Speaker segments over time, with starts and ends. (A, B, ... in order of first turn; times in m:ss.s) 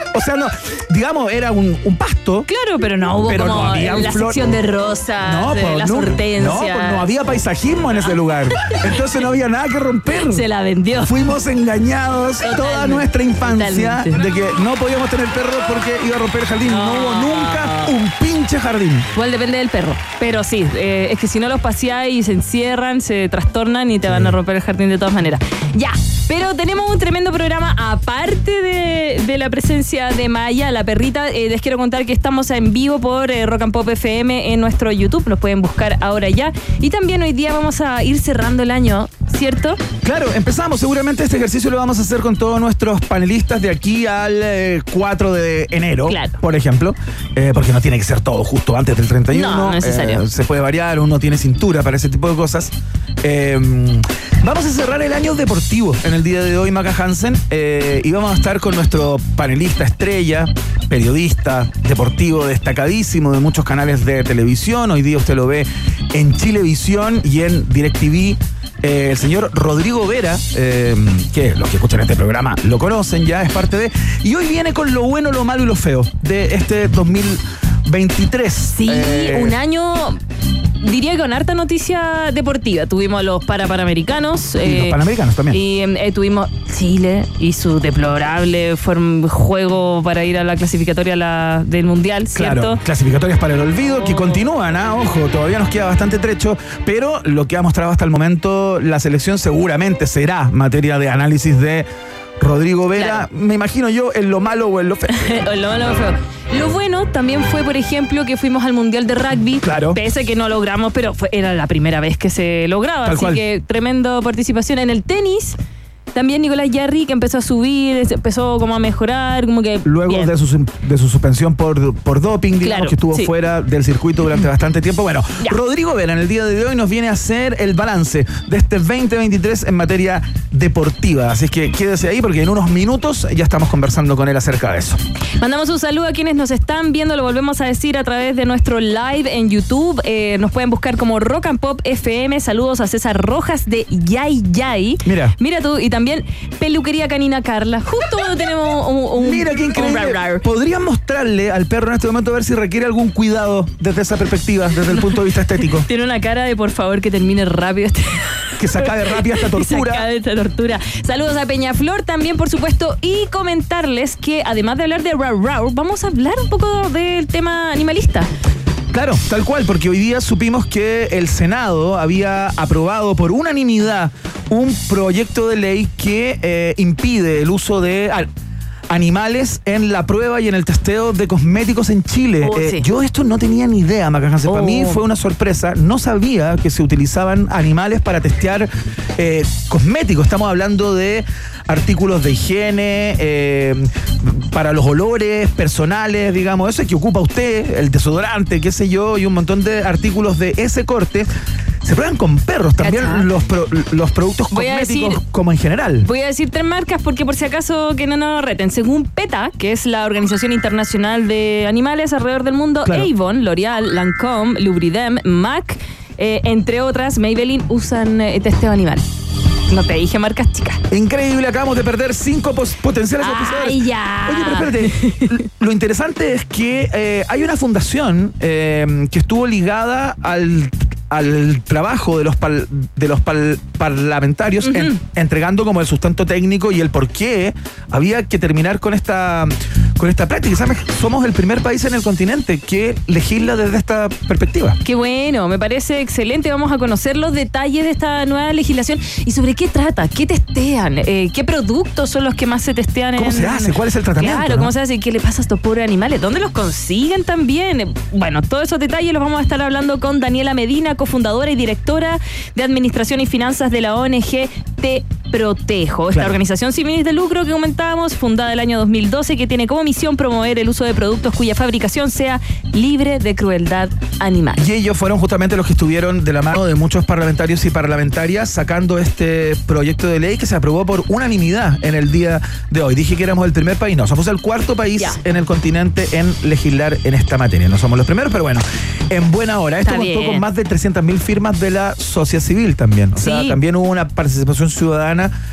0:00.1-0:02.5 A
0:02.5-0:07.1 B
0:03.2-0:04.6 A
0:05.2-0:10.4 A
0:08.1-0:08.8 B
0:10.1-0:11.2 B
0:11.0-0:19.1 A
0:12.4-0:14.2 B
0:16.6-0:17.9 B
0:19.1-0:39.8 B
0:24.0-0:24.4 A
0:40.0-1:19.6 A
0:46.0-0:46.4 B
0:49.3-0:50.2 B
1:18.7-1:20.2 B
1:20.8-1:25.0 B
1:24.6-1:25.6 A
1:25.5-1:32.8 B
1:32.3-1:41.9 A
1:33.8-1:34.4 B
1:42.4-1:45.4 A
1:42.9-1:43.2 B
1:45.1-1:55.6 B
1:49.6-1:50.0 A
1:53.0-1:53.4 A
1:56.1-2:00.3 B
1:59.8-2:15.0 A
2:02.6-2:03.3 B
2:15.4-2:30.4 B
2:25.0-2:25.3 A
2:29.2-2:35.9 A
2:34.9-2:48.3 B
2:38.6-2:40.0 A
2:48.9-2:58.3 A
2:58.9-3:21.3 A
3:02.4-3:02.8 B
3:04.5-3:05.0 B
3:21.8-3:26.1 A
3:22.8-3:23.3 B
3:24.5-3:25.2 B
3:26.0-3:39.0 B
3:32.8-3:33.1 A
3:39.7-3:40.8 B
3:40.9-4:04.8 A
3:43.2-3:45.3 B
3:54.6-3:55.0 B
4:04.8-4:34.6 B
4:13.2-4:14.7 A
4:26.1-4:26.4 A
4:34.6-4:55.3 A
4:49.8-4:50.4 B
4:53.2-4:53.6 B